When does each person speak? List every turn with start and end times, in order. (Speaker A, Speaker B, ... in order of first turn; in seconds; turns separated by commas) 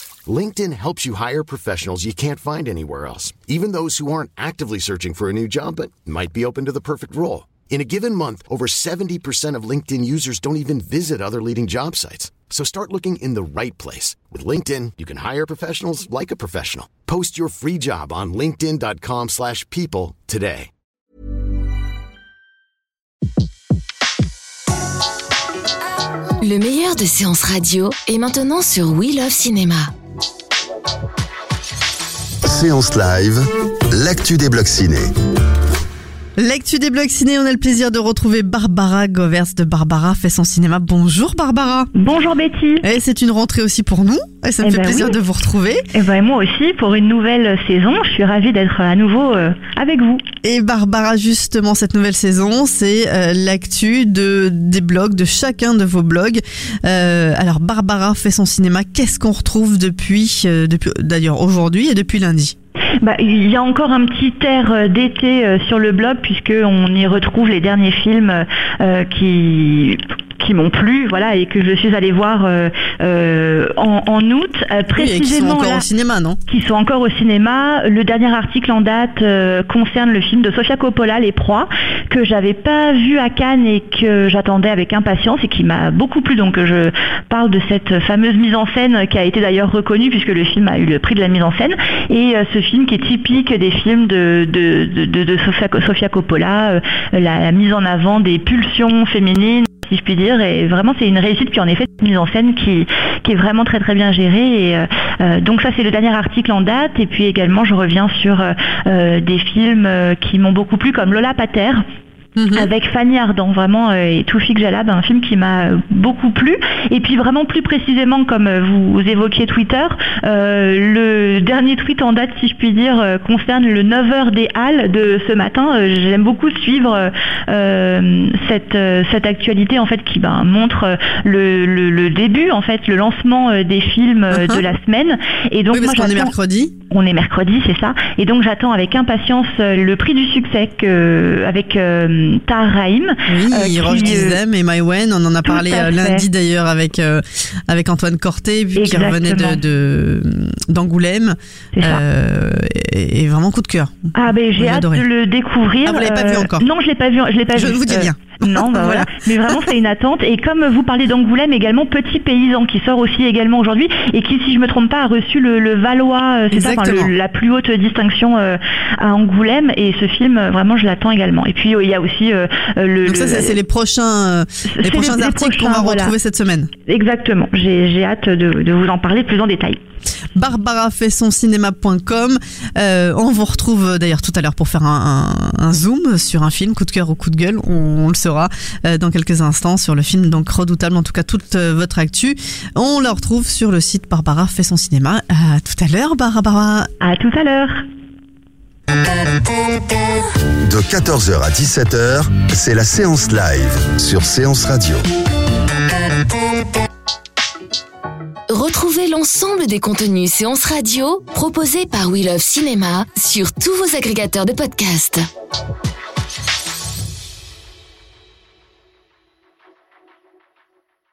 Speaker A: 0.2-20.7, Speaker B: 26.4-29.9, Speaker C: 32.4-35.1, Speaker D: 36.4-41.9, Speaker E: 41.9-42.8, Speaker D: 42.8-45.8, Speaker E: 44.6-45.1, Speaker E: 45.9-50.2, Speaker D: 50.4-62.5, Speaker E: 63.0-75.9, Speaker D: 74.9-76.4, Speaker E: 76.5-111.8, Speaker D: 112.4-112.7, Speaker E: 112.5-136.3, Speaker D: 134.3-134.6, Speaker D: 135.7-136.7, Speaker E: 136.9-144.4, Speaker D: 143.3-155.0, Speaker E: 145.4-146.2, Speaker E: 148.8-149.6, Speaker E: 151.8-152.0, Speaker E: 154.1-173.6, Speaker D: 155.8-156.7, Speaker D: 157.5-159.7, Speaker D: 166.5-167.1, Speaker D: 173.1-176.7, Speaker E: 174.8-176.1, Speaker E: 176.8-179.8, Speaker D: 180.3-196.9, Speaker E: 197.0-197.8, Speaker C: 200.6-205.0, Speaker B: 208.5-215.2